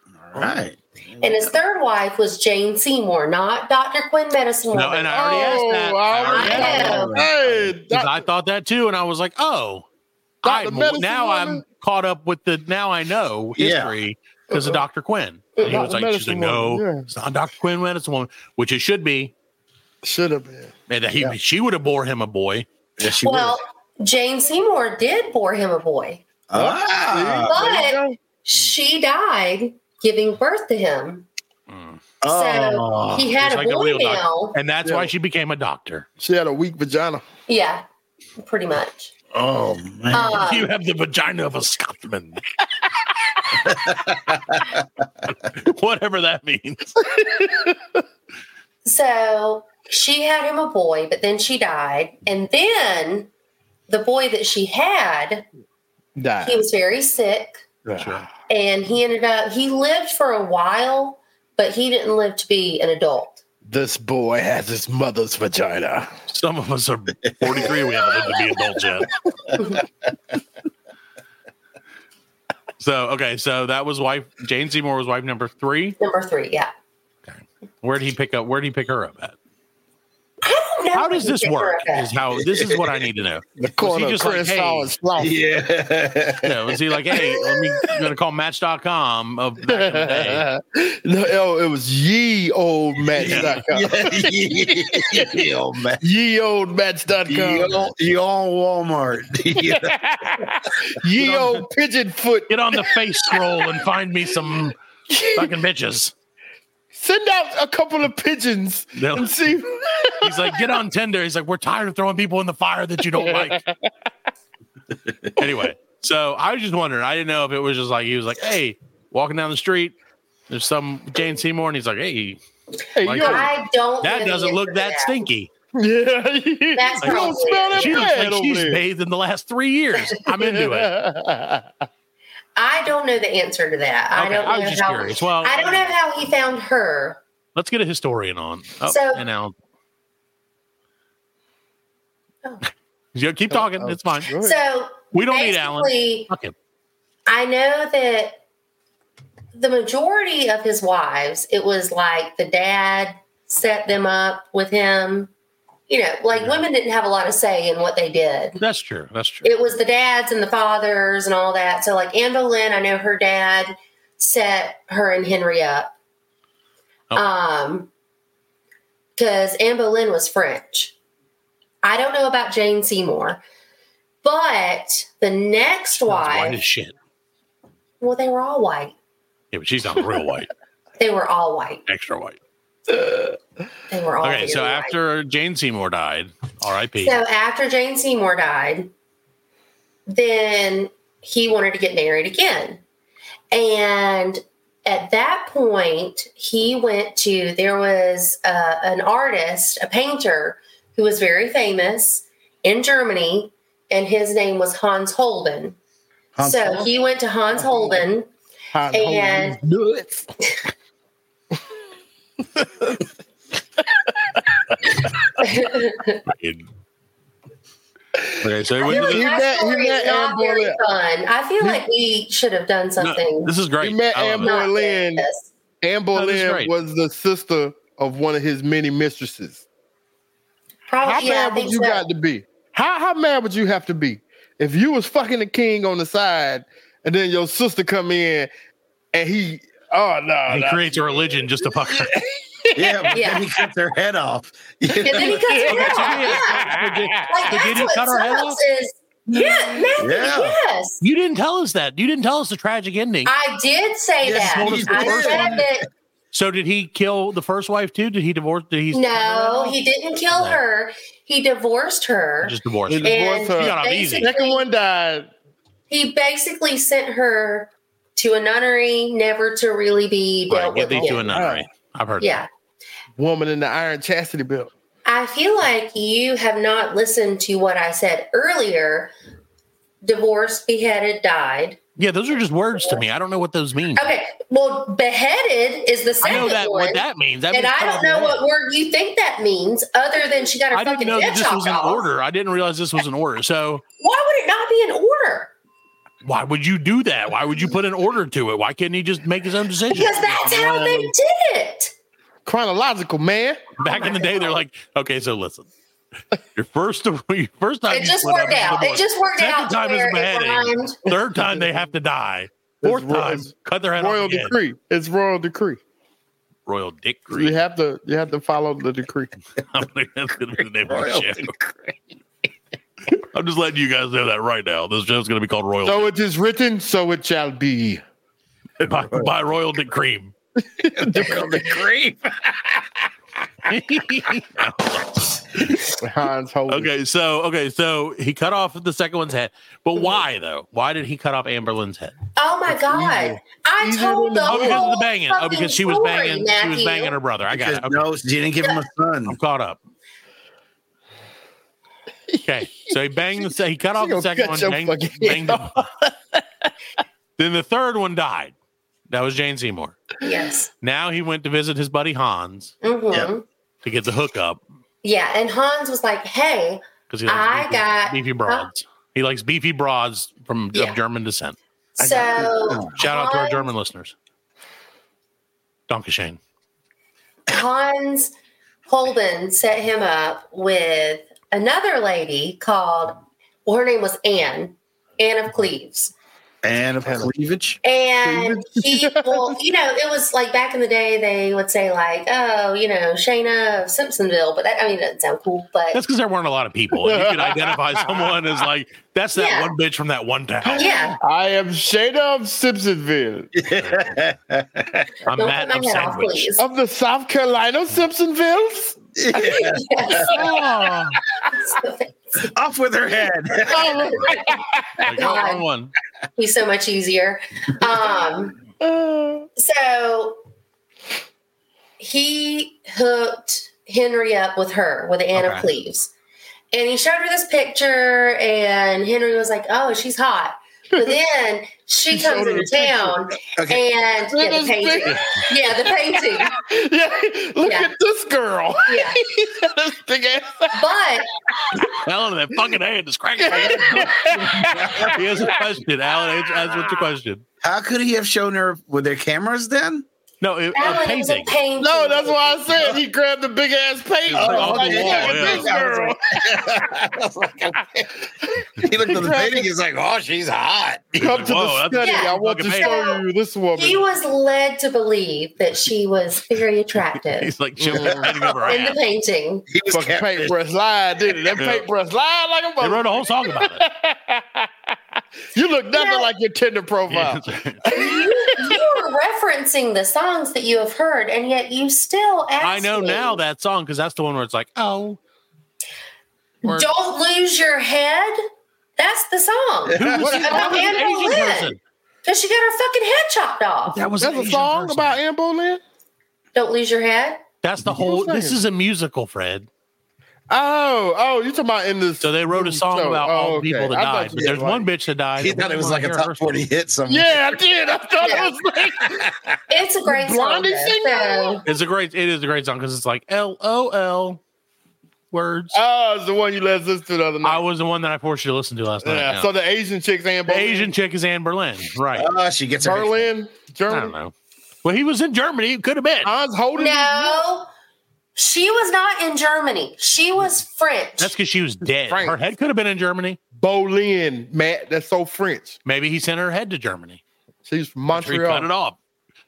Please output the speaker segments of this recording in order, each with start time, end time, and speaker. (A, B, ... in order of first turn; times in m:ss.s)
0:00.2-0:01.6 A
0:01.2-0:05.7 B
0:04.7-0:07.1 C
0:05.1-0:08.2 D
0:06.3-0:07.2 B
0:06.6-0:07.7 A
0:07.8-0:09.8 C
0:10.4-0:19.3 C
0:10.4-0:11.6 D
0:13.6-0:13.9 A
0:14.5-0:14.8 B
0:15.6-0:15.8 B
0:15.6-0:17.1 D
0:20.0-0:21.3 D
0:20.9-0:22.6 C
0:23.0-0:23.6 A
0:23.2-0:26.2 B
0:26.5-0:27.7 A
0:26.5-0:28.2 D
0:27.4-0:31.2 B
0:31.7-0:32.0 C
0:32.2-0:33.3 A
0:32.3-0:34.6 B
0:33.4-0:36.0 C
0:34.8-0:35.1 D
0:36.2-0:37.2 D
0:37.5-0:37.8 B
0:38.4-0:39.1 B
0:39.3-0:40.4 A
0:40.1-0:40.7 B
0:40.3-0:42.4 C
0:43.6-0:44.8 A
0:45.5-0:47.0 C
0:47.0-0:47.8 D
0:48.8-0:53.3 B
0:53.9-0:55.4 B
0:56.2-0:56.6 D
0:56.4-0:57.6 B
0:57.8-0:58.3 D
0:58.0-0:58.3 C
0:58.5-1:03.4 B
1:03.7-1:06.1 D
1:06.3-1:09.1 C
1:12.8-1:16.0 C
1:16.0-1:16.7 B
1:17.2-1:19.3 C
1:20.4-1:22.1 B
1:20.9-1:24.9 C
1:23.6-1:25.4 D
1:25.2-1:26.8 A
1:26.4-1:30.4 C
1:27.1-1:27.8 D
1:29.6-1:35.5 D
1:33.2-1:36.0 A
1:33.2-1:33.6 C
1:36.0-1:37.9 D
1:37.2-1:39.9 A
1:39.5-1:43.7 D
1:41.2-1:41.6 A
1:42.5-1:44.7 C
1:45.1-1:45.5 D
1:45.3-1:46.1 C
1:46.9-1:50.7 D
1:48.9-1:49.6 C
1:50.2-1:53.6 C
1:53.1-1:53.9 D
1:55.4-1:59.9 C
2:00.5-2:02.4 C
2:02.9-2:03.5 D
2:03.0-2:05.5 C
2:03.2-2:05.1 B
2:05.8-2:08.8 D
2:06.7-2:08.1 B
2:07.0-2:11.0 C
2:10.3-2:11.7 D
2:12.6-2:17.2 B
2:14.1-2:15.9 C
2:17.5-2:19.5 C
2:18.9-2:19.2 B
2:23.1-2:24.3 C
2:23.5-2:24.6 D
2:24.4-2:26.3 B
2:25.1-2:26.5 C
2:27.3-2:28.4 B
2:29.5-2:35.3 B
2:35.9-2:38.6 B
2:36.4-2:36.6 C
2:38.6-2:39.5 C
2:39.4-2:45.9 B
2:47.1-2:47.9 B
2:49.2-2:50.9 B
2:51.8-2:53.4 B
2:54.2-2:56.6 B
2:56.0-2:56.9 C
2:58.0-2:58.9 B
2:59.5-3:00.5 C
3:01.0-3:01.8 B
3:01.9-3:02.4 C
3:03.9-3:04.9 B
3:04.2-3:07.2 C
3:07.0-3:08.9 B
3:10.1-3:12.8 B
3:13.5-3:25.8 B
3:26.4-3:26.9 A
3:26.4-3:28.3 B
3:28.7-3:30.3 D
3:28.9-3:29.6 B
3:32.6-3:33.0 D
3:34.0-3:34.4 D
3:35.4-3:36.2 B
3:36.2-3:36.6 C
3:38.2-3:40.8 D
3:38.4-3:39.3 C
3:38.8-3:43.5 B
3:43.0-3:44.5 C
3:43.8-3:45.2 D
3:44.4-3:45.5 B
3:45.8-3:49.6 D
3:46.1-3:46.7 C
3:50.9-3:52.0 B
3:51.0-3:58.5 D
3:59.1-4:03.2 D
4:00.5-4:02.2 C
4:02.7-4:05.6 A
4:03.1-4:03.4 B
4:05.0-4:06.7 B
4:05.0-4:07.3 D
4:05.6-4:08.6 C
4:07.2-4:11.0 B
4:09.3-4:09.9 D
4:10.0-4:10.6 A
4:11.0-4:13.3 C
4:13.2-4:15.8 B
4:14.2-4:15.7 A
4:14.4-4:15.6 C
4:16.3-4:19.8 C
4:18.9-4:24.6 B
4:20.3-4:20.6 C
4:22.4-4:24.3 C
4:22.9-4:25.3 D
4:25.9-4:31.3 B
4:30.5-4:32.4 C
4:30.9-4:31.6 D
4:32.2-4:32.5 B
4:33.2-4:34.7 D
4:35.0-4:39.1 B
4:40.0-4:41.8 B
4:42.0-4:44.1 C
4:44.0-4:52.1 B
4:46.2-4:48.4 C
4:50.7-4:53.8 C
4:54.0-4:55.5 B
4:56.2-5:00.3 C
4:59.9-5:01.9 B
5:00.1-5:01.1 D
5:02.4-5:03.6 D
5:03.8-5:05.7 C
5:03.8-5:04.5 B
5:06.6-5:14.6 C
5:07.9-5:11.0 B
5:12.8-5:15.8 D
5:16.6-5:17.6 C
5:17.3-5:19.3 D
5:19.7-5:21.5 C
5:20.8-5:22.0 A
5:23.3-5:26.1 C
5:25.8-5:28.0 D
5:28.8-5:30.3 C
5:28.9-5:29.3 A
5:30.8-5:31.8 D
5:30.9-5:32.8 A
5:33.7-5:35.8 C
5:36.0-5:36.9 D
5:36.7-5:42.1 C
5:42.4-5:47.1 B
5:42.7-5:44.9 D
5:44.5-5:48.1 C
5:47.5-5:49.4 A
5:49.3-5:49.8 C
5:52.3-5:52.9 D
5:52.4-5:55.8 C
5:53.9-5:56.7 D
5:57.4-5:58.5 C
5:59.1-6:00.0 C
6:00.2-6:00.7 B
6:00.8-6:02.7 C
6:02.8-6:03.4 B
6:03.8-6:04.6 C
6:05.0-6:08.7 B
6:07.1-6:11.6 C
6:12.0-6:13.7 B
6:12.0-6:13.0 A
6:12.9-6:14.1 C
6:15.9-6:16.4 C
6:17.5-6:18.3 B
6:18.9-6:26.1 B
6:26.6-6:27.8 A
6:27.0-6:27.3 D
6:27.8-6:36.0 B
6:28.2-6:29.6 D
6:35.9-6:41.0 C
6:36.9-6:38.6 D
6:39.3-6:39.7 B
6:40.7-6:41.2 B
6:41.2-6:43.5 D
6:43.5-6:45.2 A
6:45.2-6:46.5 C
6:45.3-6:46.6 B
6:46.6-6:49.0 D
6:49.2-6:50.3 A
6:49.5-6:50.3 B
6:50.2-6:51.2 C
6:51.5-6:52.5 B
6:52.5-6:54.3 A
6:53.7-6:54.8 D
6:53.9-6:54.5 B
6:55.0-6:55.9 C
6:55.0-6:55.6 B
6:56.4-6:58.5 B
6:58.8-6:59.5 D
6:59.6-7:00.4 B
7:02.0-7:06.1 B
7:05.3-7:05.7 C
7:06.7-7:16.6 B
7:12.1-7:13.4 D
7:13.6-7:13.9 A
7:14.3-7:20.9 D
7:17.6-7:17.9 B
7:18.9-7:19.2 B
7:20.7-7:21.3 B
7:21.8-7:24.3 C
7:23.4-7:25.6 D
7:24.4-7:25.5 A
7:25.0-7:27.4 C
7:27.6-7:30.0 A
7:30.4-7:31.6 C
7:30.7-7:32.7 B
7:31.8-7:36.8 D
7:34.3-7:38.2 A
7:34.3-7:35.7 C
7:38.8-7:41.1 A
7:39.0-7:39.7 D
7:41.1-7:43.0 C
7:41.1-7:44.0 D
7:42.0-7:43.2 B
7:43.8-7:47.5 B
7:47.4-7:49.0 C
7:47.8-7:48.4 D
7:48.7-7:49.6 B
7:49.7-7:50.5 A
7:49.9-7:54.7 D
7:51.6-7:51.8 C
7:52.8-7:53.8 C
7:55.5-7:58.8 D
7:55.9-7:56.3 B
7:57.1-7:57.9 C
7:57.9-8:03.4 B
8:02.6-8:05.2 C
8:06.6-8:06.9 C
8:06.6-8:08.4 B
8:09.0-8:14.0 B
8:09.9-8:10.3 A
8:09.9-8:11.8 C
8:10.2-8:11.0 D
8:13.9-8:15.2 C
8:14.2-8:15.8 D
8:16.5-8:17.4 B
8:17.6-8:19.7 C
8:17.8-8:18.6 D
8:20.5-8:24.9 D
8:22.2-8:26.6 C
8:25.4-8:27.6 A
8:27.1-8:29.3 D
8:28.2-8:28.5 B
8:29.0-8:29.3 A
8:29.7-8:31.6 B
8:30.0-8:31.6 D
8:31.6-8:34.4 C
8:35.3-8:35.8 C
8:35.7-8:37.6 D
8:37.4-8:39.5 C
8:39.0-8:40.9 D
8:40.5-8:42.3 C
8:42.2-8:43.3 A
8:42.8-8:44.1 D
8:43.9-8:44.3 C
8:44.8-8:46.3 C
8:46.2-8:47.4 D
8:46.8-8:47.7 B
8:48.4-8:51.3 B
8:51.2-8:53.4 C
8:52.0-8:52.4 D
8:53.6-8:55.8 D
8:55.8-8:57.2 C
8:57.7-8:58.7 D
8:58.1-8:59.0 C